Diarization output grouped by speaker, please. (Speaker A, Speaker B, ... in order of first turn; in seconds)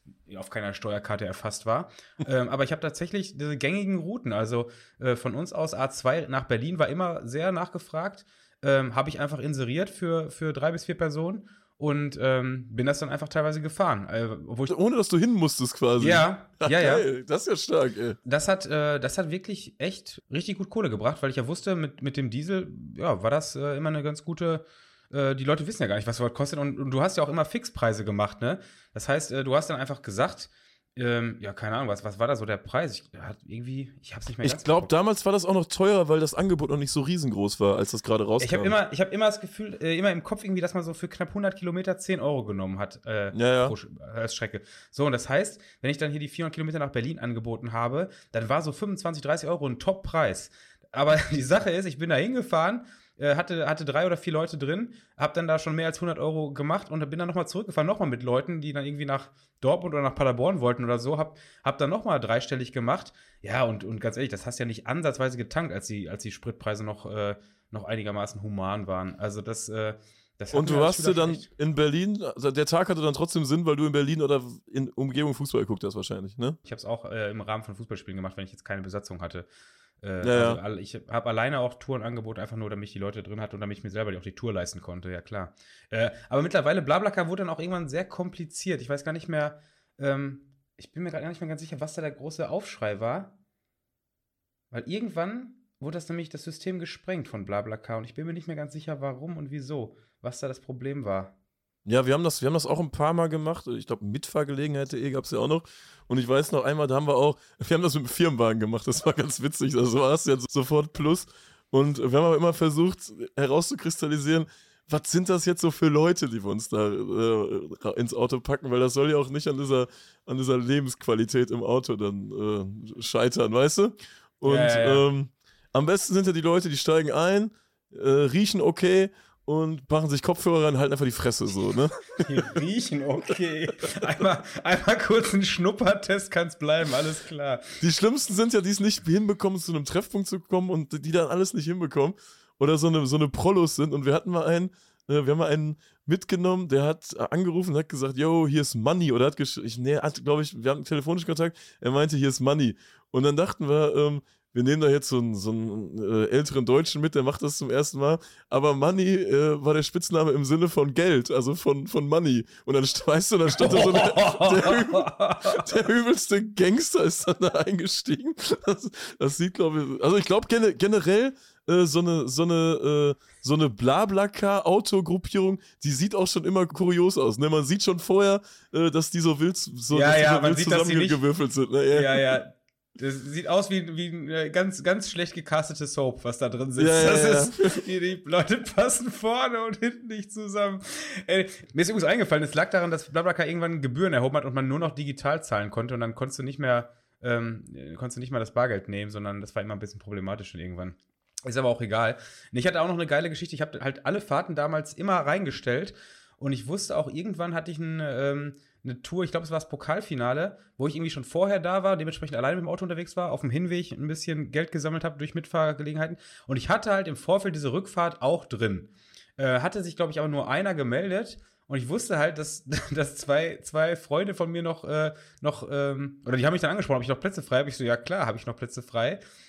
Speaker A: 0.3-14.7, 16.0-17.1, 18.2-34.9, 38.4-71.5, 76.7-79.5, 80.0-93.3, 94.7-101.3, 124.5-125.0, 132.2-137.8, 163.6-165.7, 179.9-181.2, 181.9-229.2
Speaker B: 14.7-18.2, 34.4-38.8, 43.3-43.8, 70.5-76.6, 80.2-80.6, 101.8-132.3, 137.8-182.4, 186.8-187.8